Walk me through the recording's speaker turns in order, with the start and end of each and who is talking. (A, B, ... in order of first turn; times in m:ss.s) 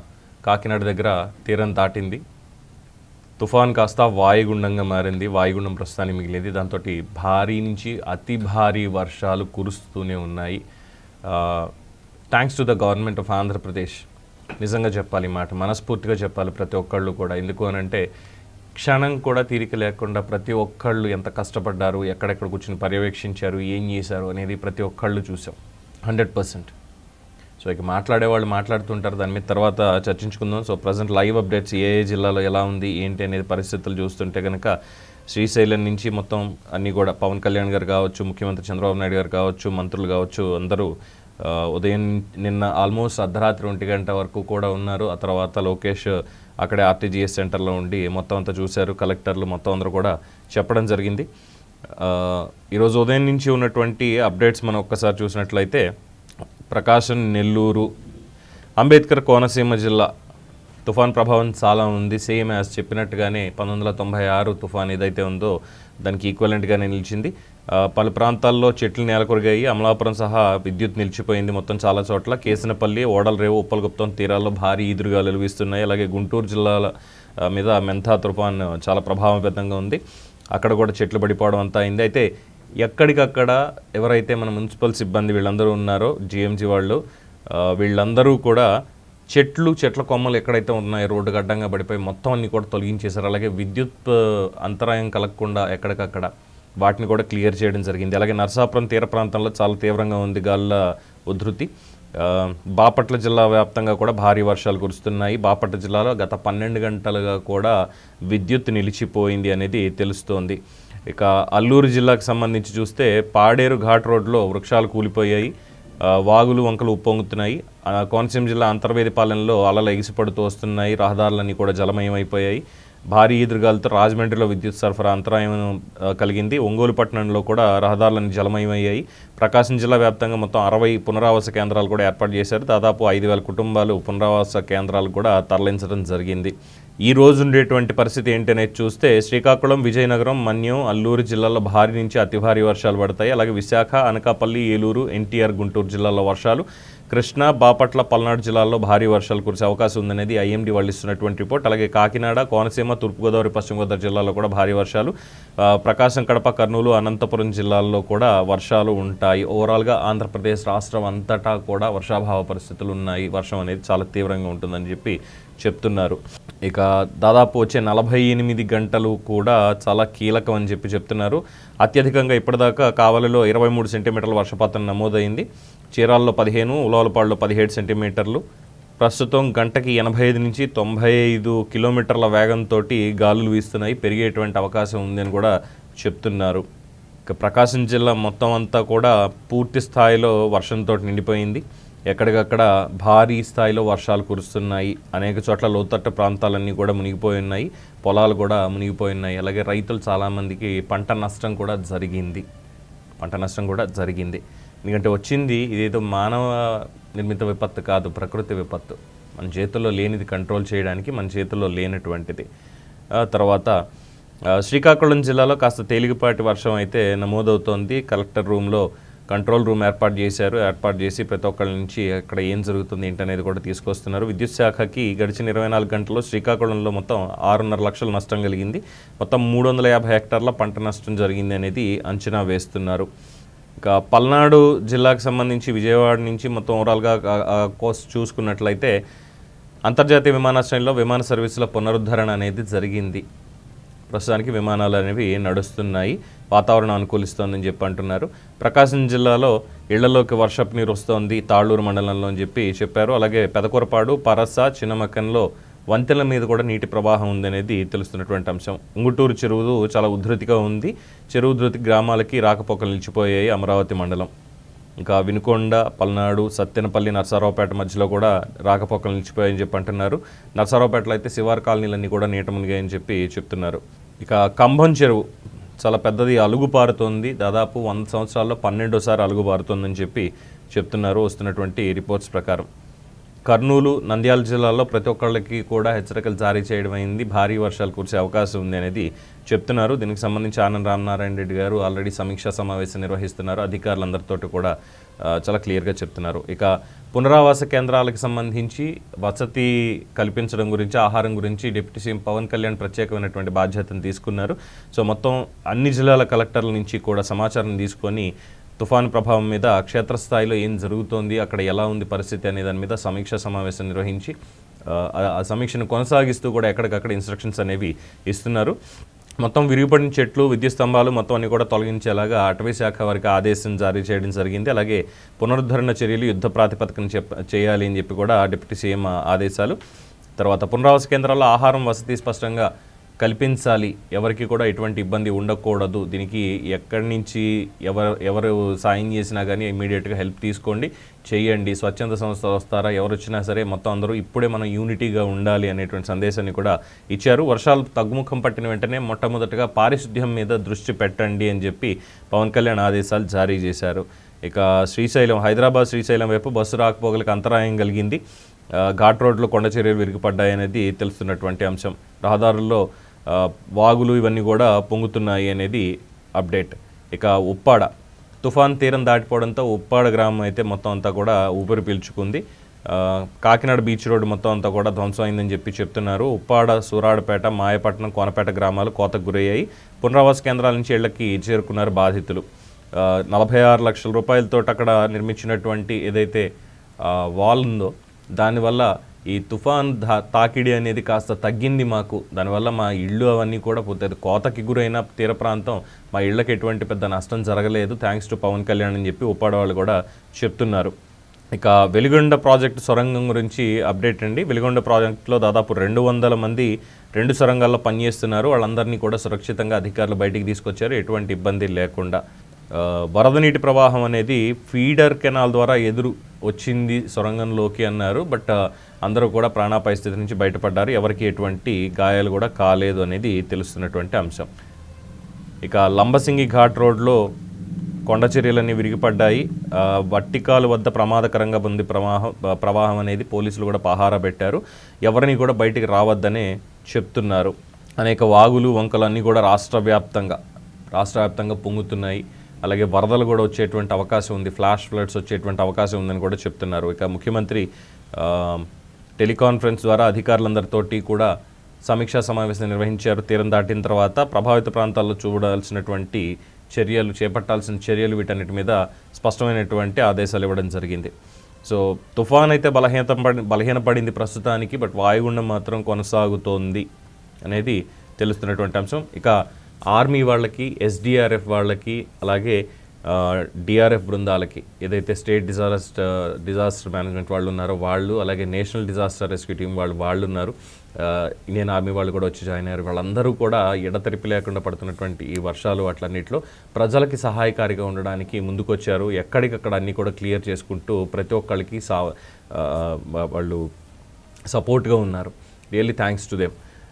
0:00.4-0:02.2 A
0:03.4-0:10.6 A
0:11.3-0:11.7 A
0:12.3-0:14.0 A
0:14.6-0:18.0 A
0:18.8-0:26.7 A
0:27.6-0:34.7 A
0:35.3-0:40.9 A
0:41.4-0:51.3 A
0:52.0-0:55.8 A
0:56.7-0:57.9 A
0:58.8-1:00.1 A
1:00.8-1:16.9 A
1:17.4-1:20.0 A
1:20.6-1:22.3 A
1:22.8-1:27.0 A
1:27.5-1:28.7 A
1:29.3-1:47.8 A
1:48.3-1:50.6 A
1:51.1-1:55.5 A
1:56.1-2:16.5 A
2:17.1-2:58.4 A
2:59.0-3:06.6 A
3:07.3-3:22.4 A
3:23.2-3:32.5 A
3:33.2-3:33.8 A
3:34.5-3:53.1 A
3:53.8-3:58.9 A
3:59.9-4:03.2 A
4:04.1-4:24.3 A
4:25.0-4:35.2 A
4:35.8-4:42.7 A
4:43.5-4:54.7 A
4:55.3-5:14.3 A
5:14.9-5:18.8 A
5:19.4-5:29.8 A
5:30.4-5:32.7 A
5:33.2-5:58.2 A
5:58.8-6:05.9 A
6:06.4-6:07.9 A
6:08.4-6:22.4 A
6:23.0-6:26.5 A
6:27.0-6:40.9 A
6:41.5-6:52.2 A
6:52.7-6:58.5 A
6:59.1-7:04.5 A
7:05.6-7:07.2 A
7:08.1-7:20.4 A
7:20.9-7:27.7 A
7:28.2-7:28.7 A
7:29.2-7:31.3 A
7:31.9-7:41.1 A
7:41.6-7:46.8 A
7:47.5-7:49.4 A
7:49.9-8:13.6 A
8:14.5-8:16.5 A